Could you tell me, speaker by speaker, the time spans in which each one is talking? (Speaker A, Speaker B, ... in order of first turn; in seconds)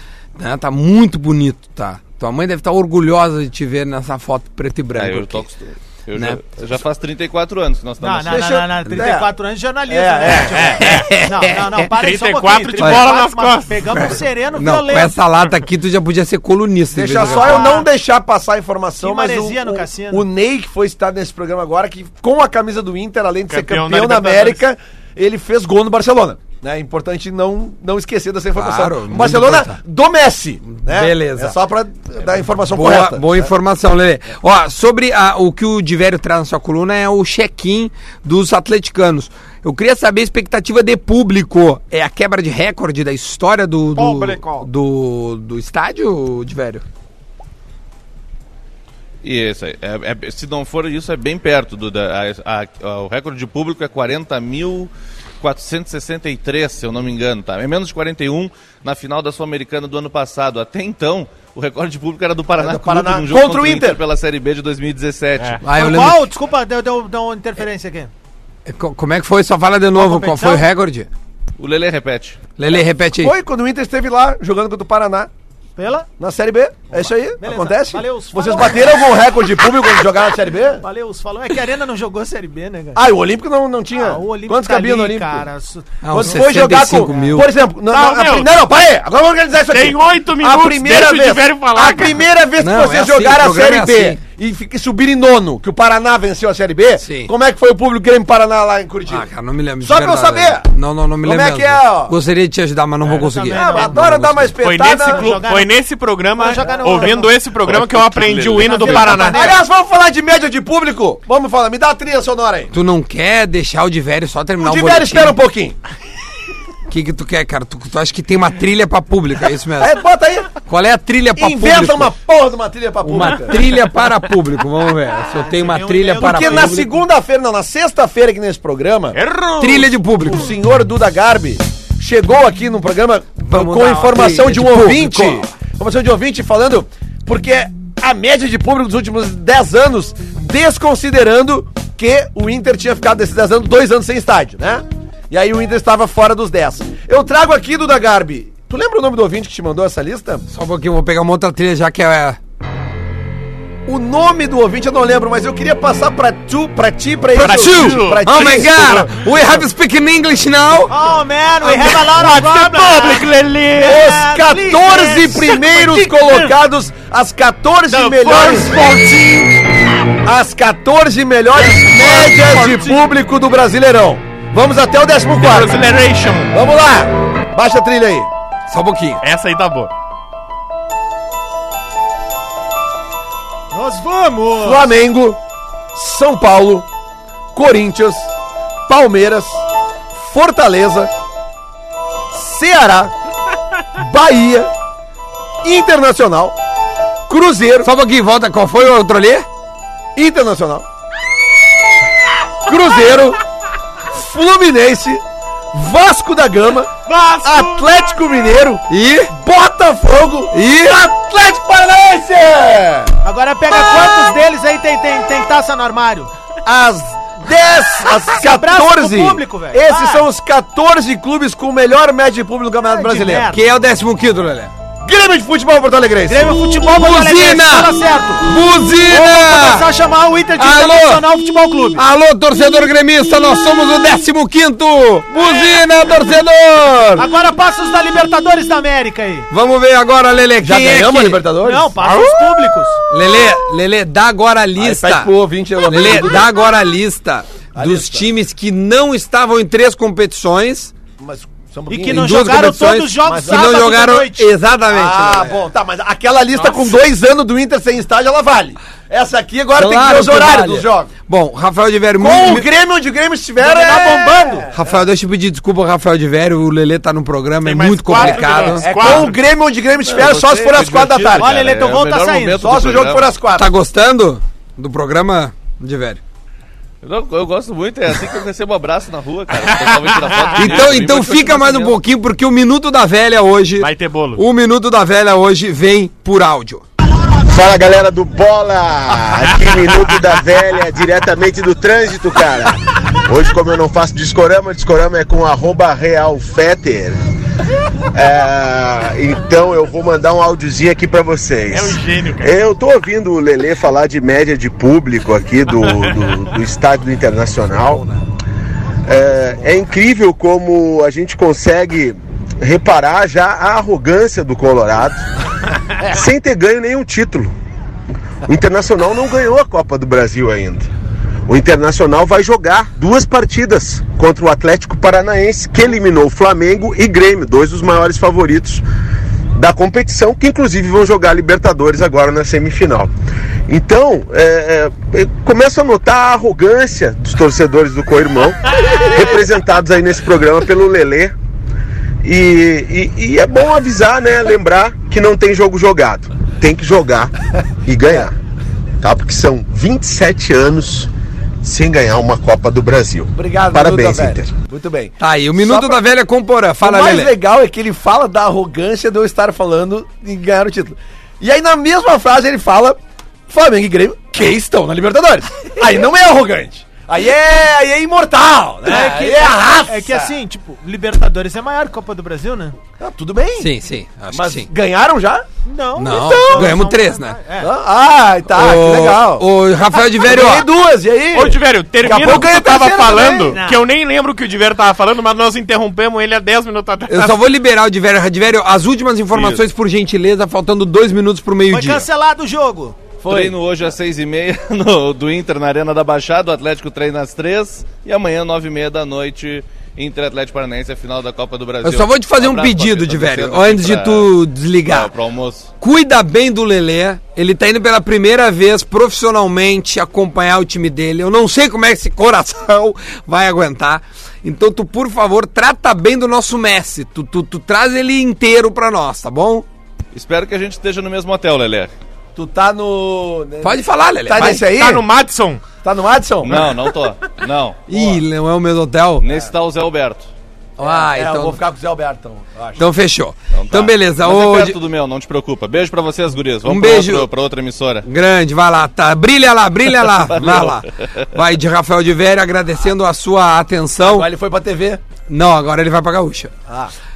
Speaker A: 0.4-5.5, 6.1-6.4, 10.8-11.9, 12.8-13.1, 13.9-17.8, 28.6-29.8, 30.7-31.6, 32.7-46.8, 65.6-66.3, 68.7-71.1, 72.6-73.3, 86.0-87.5, 92.6-94.2, 97.0-97.3, 99.1-104.6, 112.7-115.4, 116.9-120.0, 120.6-122.1, 123.0-127.0, 129.6-130.6, 133.4-135.4, 150.5-152.4, 157.4-160.9, 178.7-179.2, 197.8-199.5, 208.9-209.3, 210.5-211.0, 223.5-224.7, 226.9-229.9, 230.6-231.3, 231.9-237.3, 239.5-241.5, 242.0-250.9, 252.1-255.6, 259.8-262.7, 264.7-269.2, 273.6-276.2, 280.6-286.8, 355.2-357.3, 373.6-374.7, 376.0-377.4, 378.5-380.7, 387.1-392.1, 401.8-405.1, 405.8-419.7, 423.6-424.6, 427.9-429.3, 430.8-431.6, 432.8-434.8, 436.6-437.3, 438.0-444.3, 445.3-446.5
Speaker B: 5.0-8.5, 49.2-65.6, 71.6-72.4, 107.6-109.2, 270.0-273.4, 277.0-282.0, 389.3-389.6, 393.3-405.7, 420.1-421.9, 426.4-427.9, 429.2-430.3, 433.5-438.1, 440.0-441.3
Speaker C: 8.0-15.1, 17.2-17.9, 19.0-20.3, 44.0-44.7, 65.7-68.1, 70.0-70.7, 75.8-76.1, 76.9-79.6, 80.8-83.0, 84.0-87.4, 103.1-104.0, 104.8-105.7, 106.4-107.4, 108.6-109.6, 125.2-126.8, 160.9-166.5, 183.7-184.9, 213.2-216.3, 218.3-220.3, 222.8-223.6, 226.3-228.5, 229.1-232.0, 237.2-239.5, 241.6-243.0, 251.9-254.5, 263.6-264.7, 271.4-272.7, 368.9-372.8, 375.6-377.7, 383.5-383.8, 391.7-393.0
Speaker D: 8.3-9.3, 9.9-10.9, 16.9-33.5, 62.6-64.0, 73.2-75.3, 76.2-80.8, 83.0-85.5, 86.1-99.3, 99.8-100.7, 101.2-102.2, 103.4-105.4, 106.7-107.2, 108.7-112.7, 114.6-115.8, 119.8-120.6, 121.4-123.8, 126.2-129.2, 130.2-150.5, 153.9-159.1, 163.8-168.8, 170.2-175.8, 176.5-178.3, 184.6-185.4, 185.9-186.9, 187.5-188.3, 188.9-189.6, 190.1-191.1, 192.3-193.1, 193.9-194.7, 195.6-196.6, 197.3-197.9, 200.2-200.8, 202.7-203.4, 204.1-205.2, 205.7-206.9, 207.4-213.2, 216.7-223.5, 225.0-226.6, 240.6-241.9, 244.8-246.5, 247.8-248.3, 251.2-252.6, 253.2-253.9, 254.9-261.1, 262.2-265.0, 268.1-271.5, 272.6-273.7, 353.4-356.0, 356.8-363.0, 363.5-370.4, 373.0-373.7, 374.3-375.5, 376.1-376.8, 377.6-379.5, 380.2-383.6, 393.2-393.6, 422.4-425.1, 425.8-426.8, 427.9-428.2, 430.8-432.8, 444.0-445.0, 446.7-446.9
Speaker E: 10.3-11.0, 12.0-13.9, 23.5-24.6, 87.9-88.6, 89.7-92.2, 104.6-109.6, 129.1-129.9, 157.3-159.1, 161.6-164.0, 167.9-169.7, 171.8-173.0, 175.4-176.6, 179.2-179.9, 207.1-207.9, 267.6-269.4, 280.0-280.4, 283.8-284.4, 289.7-290.3, 301.7-302.6, 381.3-387.4, 424.4-425.6
Speaker F: 287.4-297.2, 298.1-308.1, 309.1-315.2, 316.0-317.5, 318.5-320.9, 321.5-328.8, 329.6-333.1, 333.7-341.3, 342.2-347.3, 347.9-348.3, 349.0-351.1, 351.6-354.6